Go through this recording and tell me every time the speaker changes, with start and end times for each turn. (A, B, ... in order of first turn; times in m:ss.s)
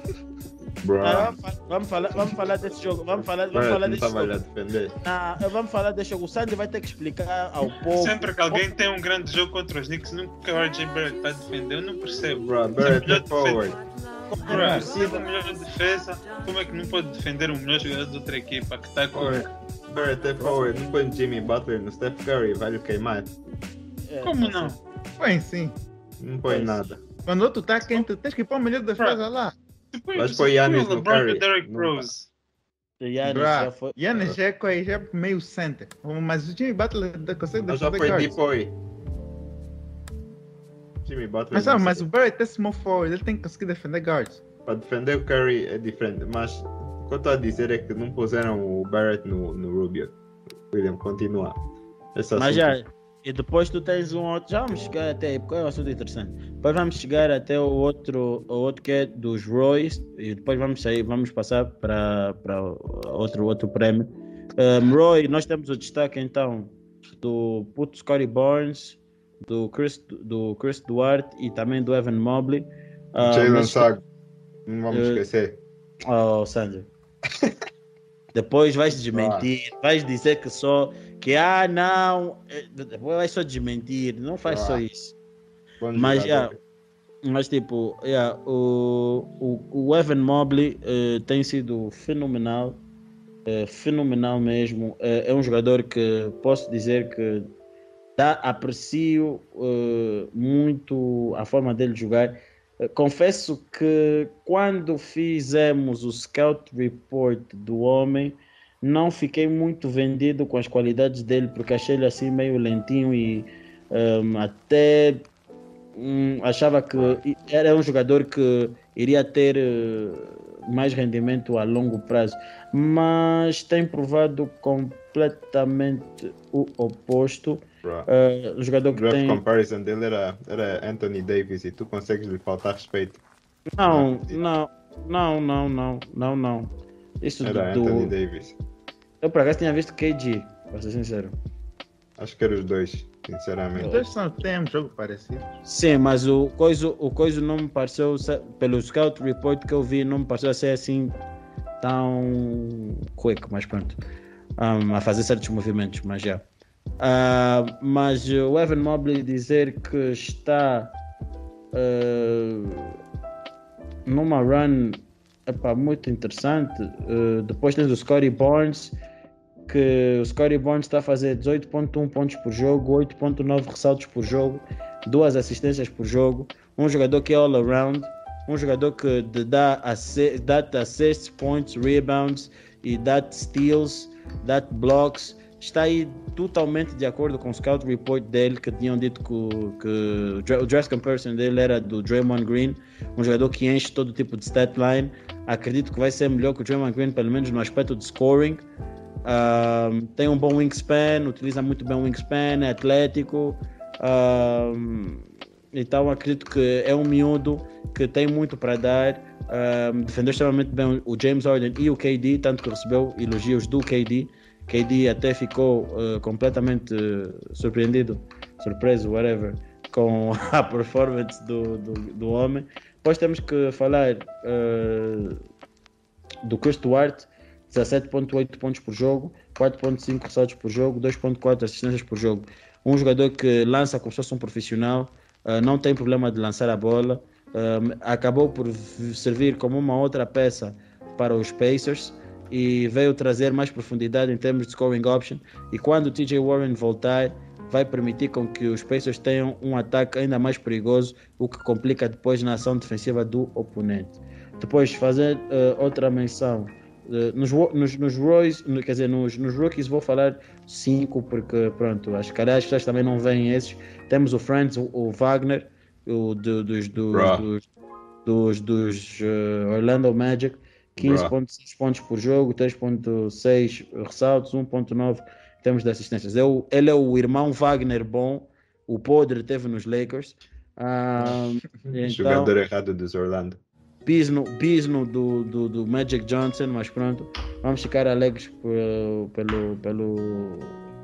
0:00.8-0:01.4 A
0:01.0-0:04.4 B
0:03.5-0:04.9 A
0:05.0-0:08.6 B
0:07.8-0:13.7 C
0:12.4-0:13.8 A
0:14.3-0:15.0 B
0:14.4-0:19.5 C
0:14.4-0:15.2 D
0:19.1-0:23.3 A
0:20.4-0:20.8 B
0:24.1-0:24.8 B
0:24.2-0:24.8 C
0:25.2-0:25.7 D
0:26.2-0:27.0 A
0:26.5-0:26.9 B
0:27.3-0:29.6 D
0:29.9-0:32.3 C
0:30.1-0:32.1 A
0:33.0-0:34.0 B
0:33.2-0:38.4 D
0:37.7-0:38.7 A
0:41.0-0:42.1 A
0:41.5-0:44.4 D
0:44.7-0:50.1 A
0:50.7-0:51.6 A
0:52.1-0:52.8 A
0:52.4-1:13.9 B
1:13.2-1:14.0 A
1:14.7-1:15.6 A
1:14.9-1:15.2 B
1:16.0-1:16.9 B
1:18.3-1:25.1 B
1:19.0-1:19.5 A
1:24.4-1:24.8 A
1:25.8-1:26.6 A
1:26.0-1:26.5 B
1:27.2-1:32.8 B
1:33.4-1:37.5 B
1:38.2-1:55.3 B
1:56.0-2:09.4 B
2:07.8-2:08.1 A
2:08.9-2:13.2 A
2:13.8-2:18.1 B
2:13.8-2:14.4 A
2:17.4-2:18.6 A
2:19.2-2:21.3 B
2:22.2-2:24.0 A
2:23.8-2:25.5 D
2:25.6-2:31.2 B
2:31.8-2:34.0 B
2:34.6-2:36.4 B
2:37.0-2:40.9 B
2:41.7-2:42.9 B
2:44.1-2:49.0 B
2:49.7-3:18.6 B
3:19.2-3:45.4 B
3:46.4-4:27.6 B
4:27.1-4:27.4 A
4:28.2-4:42.5 B
4:31.0-4:31.3 A
4:41.9-4:43.6 A
4:44.0-4:50.8 B